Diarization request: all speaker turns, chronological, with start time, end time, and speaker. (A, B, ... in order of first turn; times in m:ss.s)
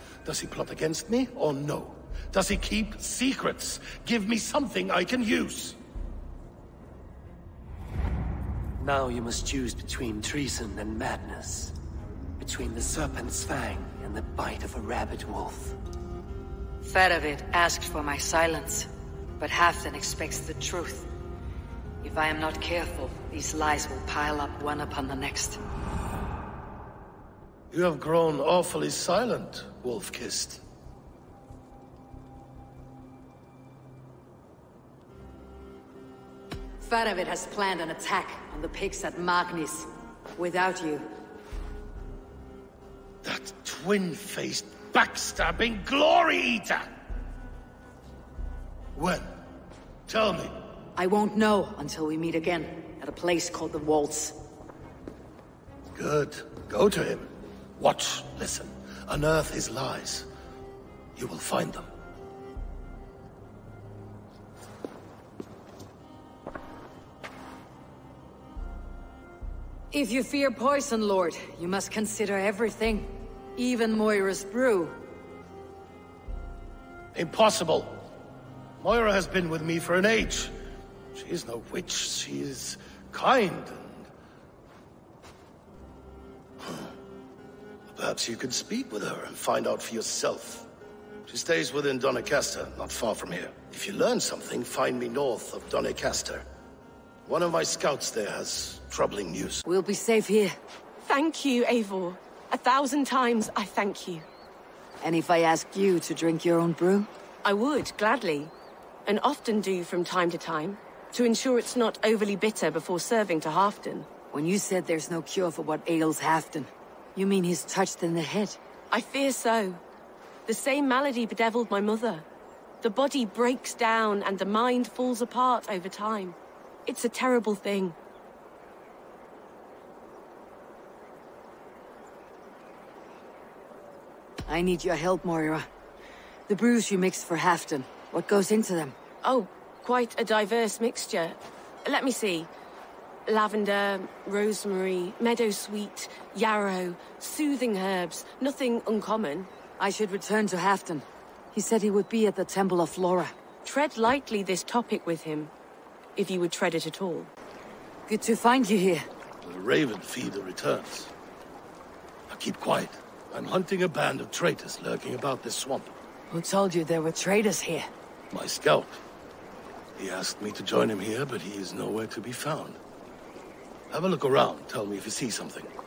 0:00.2-0:05.8 A
0:08.8-0:11.7 B
0:12.4-0:15.7 B
0:16.8-0:18.9 C
0:19.4-0:21.1 C
0:22.0-0:25.6 C
0:27.7-0:30.6 A
0:36.8-0:41.1 C
0:43.2-0:46.9 A
0:48.9-0:49.3 A
0:50.1-0:50.6 A
0:51.0-0:54.4 C
0:55.9-1:00.3 A
1:01.2-1:01.9 A
1:09.9-1:15.0 C
1:17.1-1:18.0 A
1:18.8-1:20.5 A
1:21.1-1:24.1 A
1:26.6-1:26.9 A
1:27.9-1:30.7 A
1:31.3-1:36.5 A
1:37.2-1:39.6 A
1:39.6-1:40.5 C
1:41.0-1:44.2 D
1:45.0-1:47.1 C
1:47.4-1:48.5 D
1:49.0-1:54.1 D
1:54.3-1:58.6 C
1:58.9-1:59.8 D
2:00.4-2:02.2 D
2:02.8-2:08.0 D
2:14.5-2:15.7 C
2:16.5-2:19.0 C
2:19.2-2:22.5 D
2:23.3-2:29.5 D
2:29.8-2:33.3 C
2:33.6-2:35.5 D
2:36.2-2:37.3 D
2:38.1-2:39.0 C
2:39.4-2:41.1 A
2:42.3-2:45.9 A
2:46.3-2:47.9 C
2:48.3-2:49.0 A
2:50.0-2:52.8 A
2:53.9-2:55.7 A